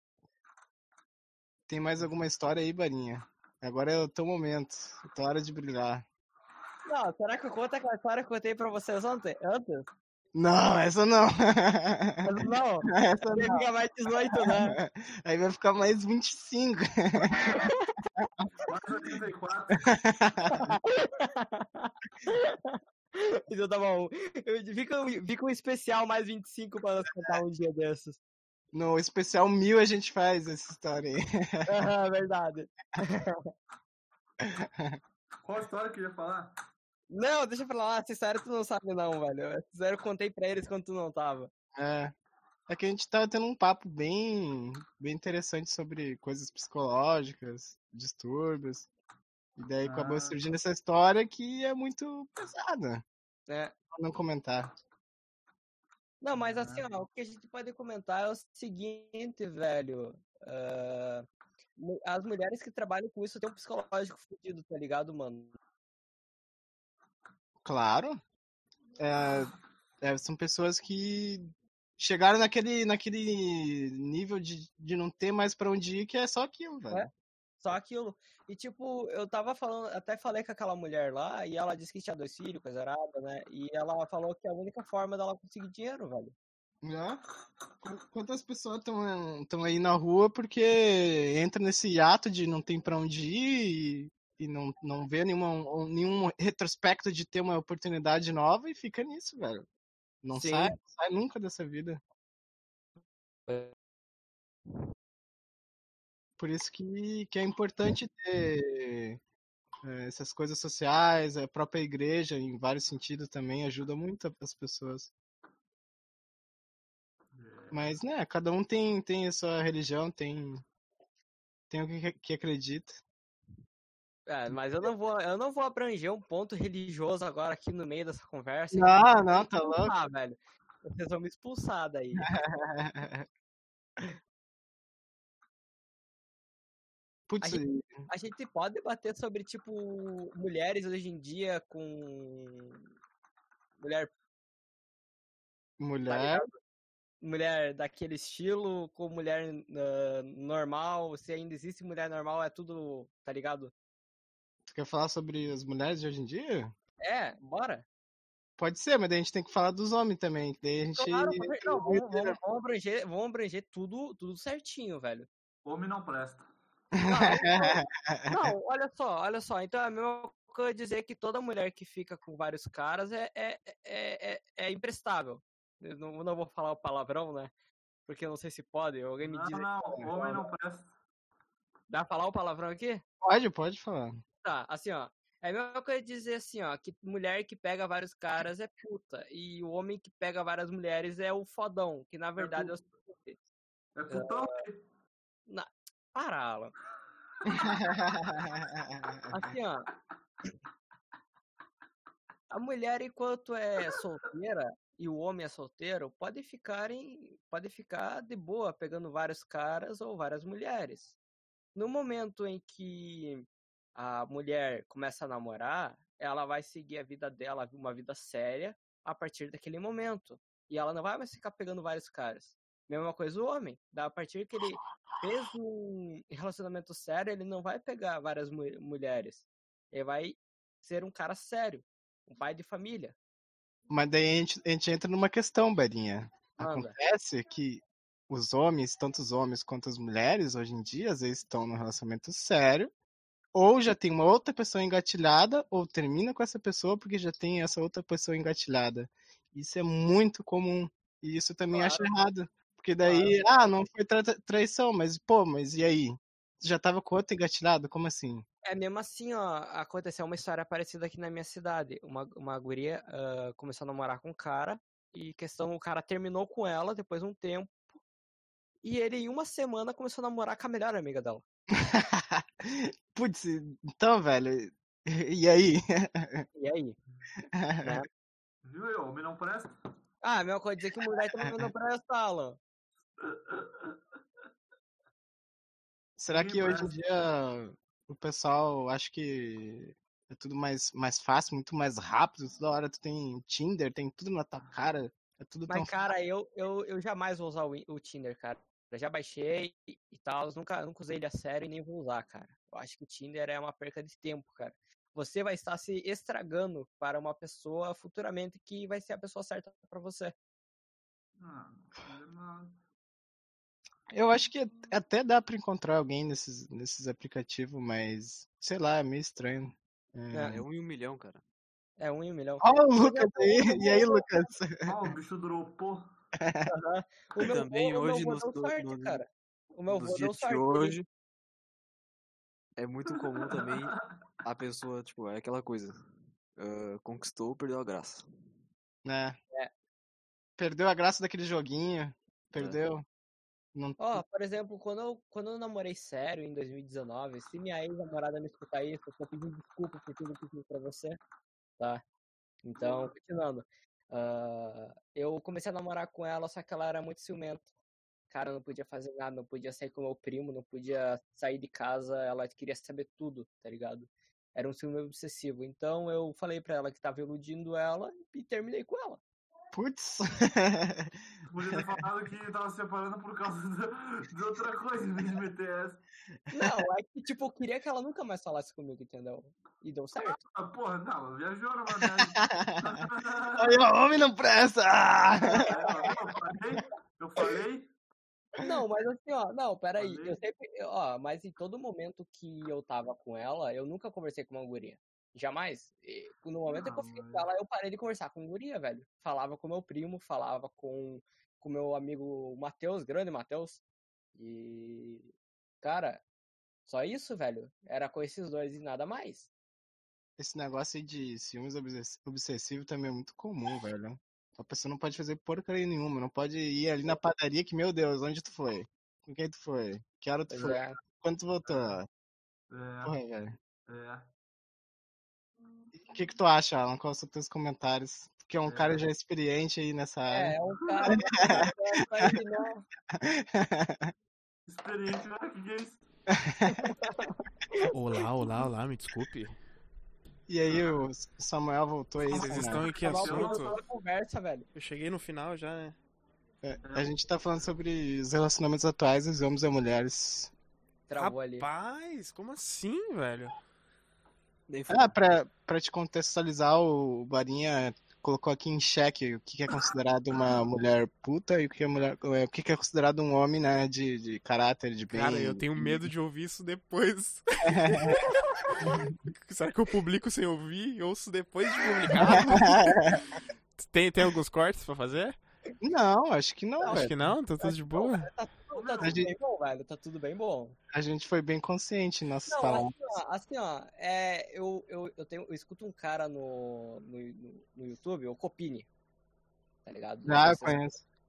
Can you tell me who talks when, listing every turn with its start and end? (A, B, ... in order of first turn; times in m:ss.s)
0:01.7-0:06.0 A
0:06.9-0:09.9 B
0:10.4-0:13.7 A
0:12.2-0:14.8 B
0:14.3-0:17.6 A
0:17.4-0:17.8 B
0:18.2-0:18.5 A
0:18.7-0:20.0 C
0:19.8-0:20.8 A
0:20.5-0:28.2 B
0:28.7-0:31.7 A
0:31.7-0:33.5 B
0:34.4-0:35.0 A
0:35.4-0:36.6 C
0:37.1-0:41.5 B
0:41.8-0:42.1 A
0:42.7-0:48.9 A
0:49.6-0:53.0 A
0:49.8-0:50.4 C
0:53.5-0:53.8 B
0:53.9-0:54.7 A
0:56.2-1:01.3 B
0:56.4-0:56.9 C
1:01.8-1:05.6 B
1:07.6-1:08.2 A
1:09.0-1:17.1 A
1:17.6-1:26.4 B
1:26.8-1:27.2 A
1:27.8-1:39.7 A
1:40.2-1:42.0 A
1:40.4-1:40.8 B
1:43.5-1:43.8 B
1:46.4-1:49.2 A
1:49.8-1:55.1 A
1:57.3-1:57.9 C
1:57.7-2:00.6 A
2:01.7-2:03.0 A
2:04.3-2:12.3 B
2:08.7-2:09.9 A
2:12.2-2:13.3 A
2:17.3-2:18.1 A
2:17.4-2:22.8 B
2:23.8-2:24.1 B
2:25.8-2:26.5 A
2:26.1-2:26.5 B
2:27.2-2:33.7 B
2:34.7-2:36.7 A
2:37.0-2:37.9 B
2:38.6-2:42.4 A
2:41.0-2:45.3 B
2:45.6-2:46.5 C
2:46.9-2:48.4 A
2:47.0-2:57.5 B
2:58.1-3:00.4 B
2:59.2-3:00.9 C
3:01.9-3:03.0 B
3:03.2-3:04.2 A
3:04.4-3:13.4 B
3:12.4-3:12.7 C
3:14.0-3:14.8 C
3:14.1-3:14.5 B
3:15.5-3:16.7 B
3:17.5-3:19.3 A
3:19.3-3:19.9 B
3:22.5-3:31.2 B
3:31.8-3:53.2 B
3:53.9-4:02.9 A
3:56.6-3:57.0 B
4:03.5-4:18.4 A
4:11.7-4:12.1 B
4:13.0-4:13.6 B
4:18.6-4:27.9 B
4:28.8-4:31.4 B
4:31.7-4:36.5 A
4:36.6-4:37.0 B
4:37.5-4:38.0 A
4:38.6-4:39.7 C
4:40.2-4:42.6 B
4:43.2-4:44.0 C
4:46.2-4:55.9 A
4:46.3-4:46.9 C
4:55.7-5:10.3 B
5:11.4-5:12.8 C
5:14.1-5:20.6 A
5:20.3-5:20.6 B
5:20.5-5:21.4 D
5:22.0-5:24.2 B
5:22.6-5:25.1 A
5:24.8-5:26.1 C
5:26.4-5:26.7 A
5:26.7-5:31.0 B
5:27.4-5:29.2 D
5:29.9-5:31.1 D
5:32.8-5:36.0 D
5:33.1-5:34.2 C
5:36.6-5:38.2 D
5:39.0-5:39.4 A
5:40.6-5:43.0 A
5:43.8-5:44.2 A
5:44.0-5:51.2 B
5:52.6-5:57.7 B
5:58.3-6:09.2 B
6:09.7-6:11.8 A
6:11.5-6:16.0 C
6:16.5-6:20.4 B
6:20.2-6:23.8 C
6:22.0-6:26.1 A
6:25.5-6:27.9 C
6:28.6-6:43.8 B
6:30.0-6:30.4 C
6:36.7-6:37.5 C
6:44.4-6:46.2 B
6:46.9-6:49.5 B
6:50.4-7:02.1 A
7:00.5-7:01.0 B
7:01.7-7:02.0 C
7:02.7-7:03.2 C
7:03.0-7:03.6 A
7:03.9-7:04.3 C
7:05.9-7:12.4 A
7:08.6-7:09.1 C
7:10.3-7:12.8 B
7:13.1-7:14.1 A
7:14.7-7:16.0 C
7:16.3-7:16.8 A
7:16.7-7:17.8 B
7:17.8-7:19.6 E
7:20.5-7:22.9 A
7:20.6-7:21.1 C
7:22.3-7:23.8 E
7:22.6-7:23.8 C
7:23.0-7:24.7 B
7:24.8-7:26.0 E
7:26.6-7:30.5 A
7:26.8-7:27.2 C
7:31.1-7:31.6 B
7:31.2-7:33.6 E
7:34.7-7:35.1 D
7:34.9-7:46.1 A
7:45.1-7:48.3 E
7:47.7-7:48.2 A
7:48.8-7:49.1 A
7:49.3-7:53.2 E
7:52.2-7:53.3 A
7:53.8-7:55.4 E
7:55.8-7:57.2 A
7:56.8-7:57.1 B
7:56.9-7:58.3 E
7:57.6-8:00.8 B
7:58.7-7:59.3 C
7:59.0-7:59.3 A
8:00.9-8:02.9 A
8:02.5-8:08.9 B
8:09.8-8:10.8 B
8:10.3-8:11.0 A